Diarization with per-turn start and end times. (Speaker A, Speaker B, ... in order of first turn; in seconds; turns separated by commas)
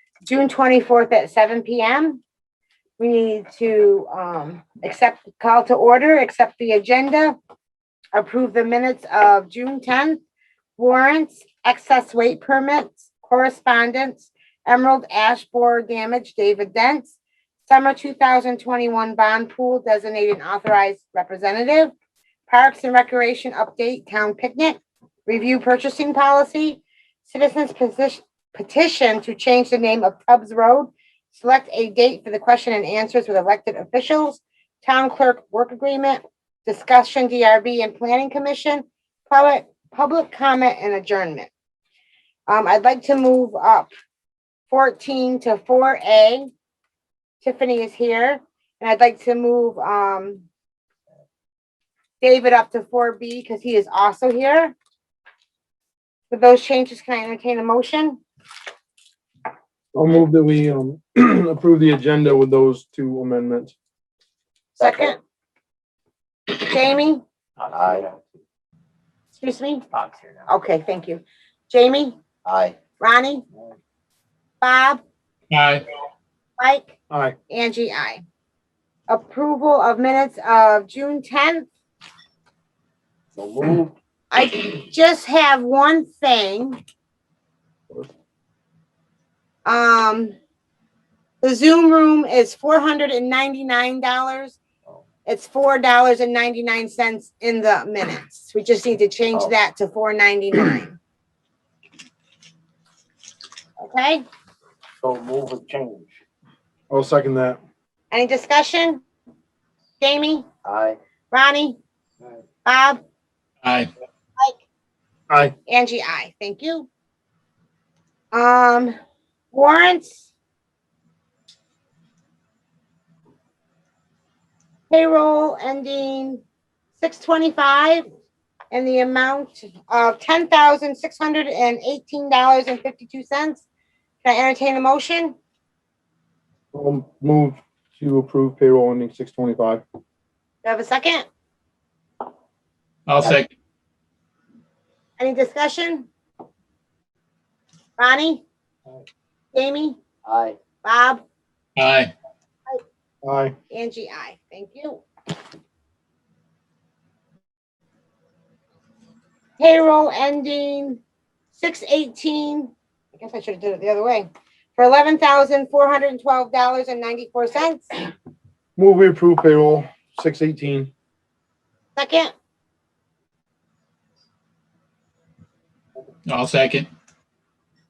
Speaker A: 0.3-2.2, Speaker A: 3.0-7.4, Speaker A: 8.1-10.2, Speaker A: 10.8-21.9, Speaker A: 22.5-41.5, Speaker A: 42.5-43.9, Speaker A: 44.7-46.5, Speaker A: 47.4-50.5, Speaker A: 52.2-54.7, Speaker A: 56.3-58.2, Speaker B: 59.9-63.7, Speaker C: 64.7-65.1, Speaker A: 64.8-65.2, Speaker A: 66.5-67.2, Speaker C: 67.6-68.3, Speaker A: 69.3-69.8, Speaker C: 70.0-70.3, Speaker A: 70.5-72.2, Speaker C: 72.4-72.8, Speaker A: 73.0-73.4, Speaker A: 74.6-75.0, Speaker D: 75.5-75.8, Speaker A: 76.6-76.9, Speaker B: 77.1-77.3, Speaker A: 77.5-78.2, Speaker A: 79.1-81.7, Speaker C: 83.3-83.9, Speaker A: 84.3-86.8, Speaker A: 89.6-90.3, Speaker A: 91.4-94.6, Speaker A: 95.2-101.0, Speaker A: 103.8-104.2, Speaker C: 105.0-106.2, Speaker B: 106.9-107.6, Speaker A: 108.1-109.0, Speaker A: 110.0-110.5, Speaker C: 110.6-111.0, Speaker A: 111.3-111.8, Speaker A: 112.7-113.0, Speaker D: 113.6-113.9, Speaker A: 115.7-116.9, Speaker A: 118.3-119.0, Speaker A: 119.5-120.3, Speaker A: 124.9-126.4, Speaker A: 127.0-128.1, Speaker A: 128.7-133.7, Speaker A: 134.2-135.3, Speaker B: 136.7-139.8, Speaker A: 140.6-141.2, Speaker D: 143.1-143.5, Speaker A: 145.2-146.1, Speaker A: 148.0-148.4, Speaker A: 149.5-150.0, Speaker C: 150.2-150.6, Speaker A: 150.8-151.2, Speaker D: 151.8-152.1, Speaker B: 153.2-153.5, Speaker A: 153.7-155.0, Speaker A: 159.6-161.0, Speaker A: 161.5-167.9, Speaker B: 168.8-170.9, Speaker A: 171.9-172.3, Speaker D: 176.3-176.9